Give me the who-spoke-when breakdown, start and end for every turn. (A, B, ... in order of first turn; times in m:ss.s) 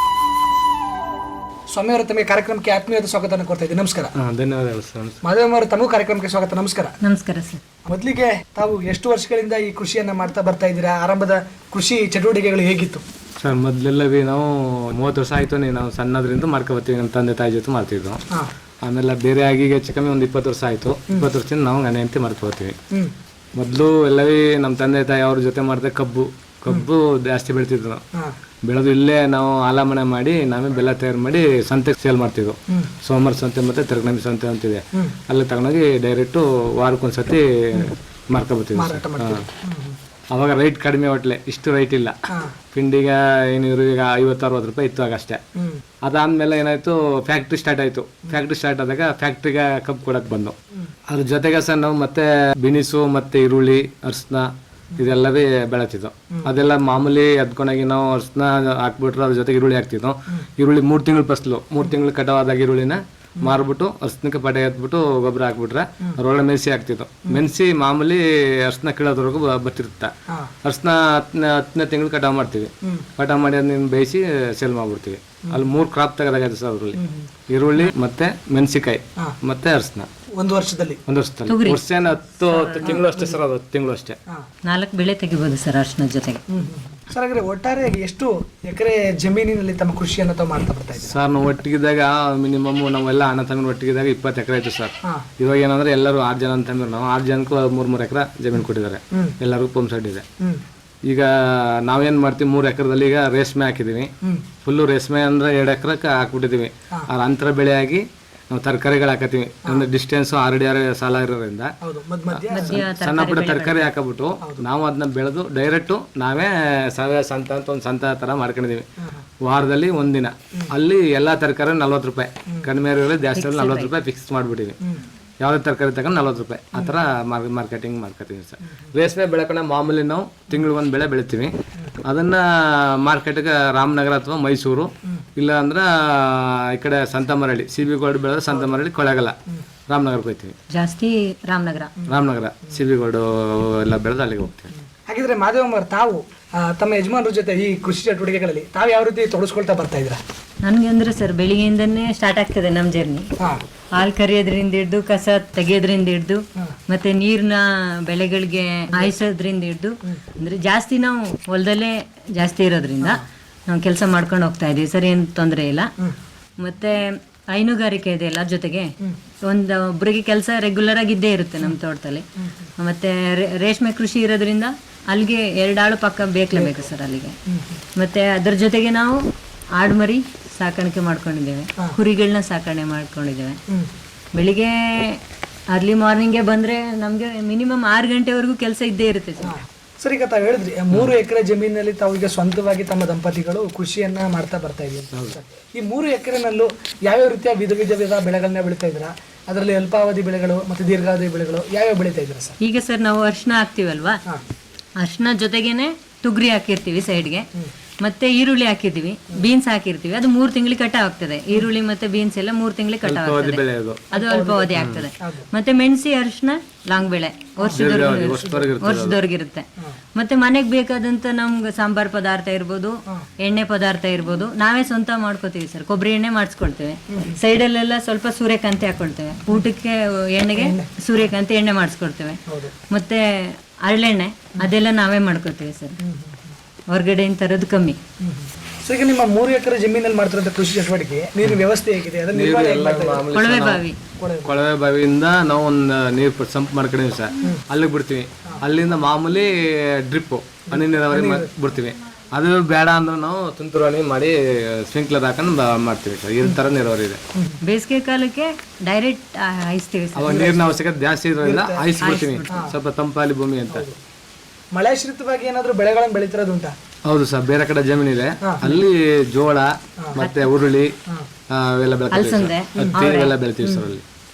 0:01.7-0:04.1 A
0:04.1-0:05.2 B
0:05.2-0:07.0 A
0:07.0-0:07.6 C
0:07.8-0:13.0 A
0:13.4-0:18.2 B
0:18.8-0:22.8 B
0:23.6-0:28.0 B
0:28.6-0:39.4 B
0:38.7-0:40.0 A
0:40.3-0:42.1 B
0:42.3-0:42.5 A
0:42.7-0:45.4 B
0:45.5-0:45.8 A
0:46.0-0:50.5 B
0:51.1-1:10.1 B
1:10.3-1:10.5 A
1:10.6-1:20.1 B
1:17.0-1:17.3 A
1:20.4-1:21.0 A
1:21.1-1:24.2 B
1:21.5-1:21.8 C
1:22.8-1:23.4 A
1:24.7-1:26.4 C
1:26.5-1:31.1 A
1:31.0-1:40.2 B
1:41.1-1:44.1 B
1:44.6-1:51.7 B
1:51.8-1:52.8 A
1:52.5-1:53.9 C
1:52.5-1:58.8 B
1:59.0-1:59.2 A
1:59.4-2:04.8 B
2:03.3-2:03.9 C
2:05.4-2:11.5 B
2:12.0-2:19.4 B
2:18.5-2:18.8 A
2:19.9-2:20.6 B
2:20.7-2:21.9 C
2:22.1-2:24.7 B
2:25.1-2:30.2 A
2:30.6-2:33.3 C
2:33.4-2:33.6 A
2:33.9-2:45.9 C
2:46.6-2:52.2 C
2:52.4-2:52.7 A
2:52.8-2:57.4 C
2:56.5-2:56.9 A
2:57.5-2:57.8 A
2:58.0-3:03.6 C
3:04.3-3:09.6 C
3:09.4-3:22.6 A
3:15.1-3:15.4 B
3:22.6-3:24.2 C
3:25.0-3:27.5 C
3:28.0-3:33.6 C
3:33.0-3:34.0 B
3:34.1-3:35.5 A
3:34.1-3:56.0 C
3:34.8-3:35.0 B
3:37.6-3:37.9 A
3:37.7-3:39.2 B
3:47.1-3:47.4 A
3:50.6-3:50.9 A
3:52.5-3:52.7 A
3:56.0-3:56.6 A
3:56.9-3:58.0 C
3:58.2-4:03.3 A
4:02.3-4:03.8 B
4:03.3-4:04.0 C
4:04.2-4:04.5 A
4:04.4-4:17.2 B
4:10.7-4:11.5 A
4:17.3-4:17.6 A
4:17.6-4:20.5 C
4:20.2-4:23.9 B
4:20.3-4:20.6 A
4:21.4-4:21.9 A
4:22.0-4:22.7 C
4:22.5-4:22.7 A
4:23.7-4:24.0 A
4:24.7-4:26.7 A
4:27.0-4:30.9 B
4:30.2-4:30.5 C
4:31.5-4:34.0 B
4:32.1-4:33.3 C
4:32.7-4:33.0 A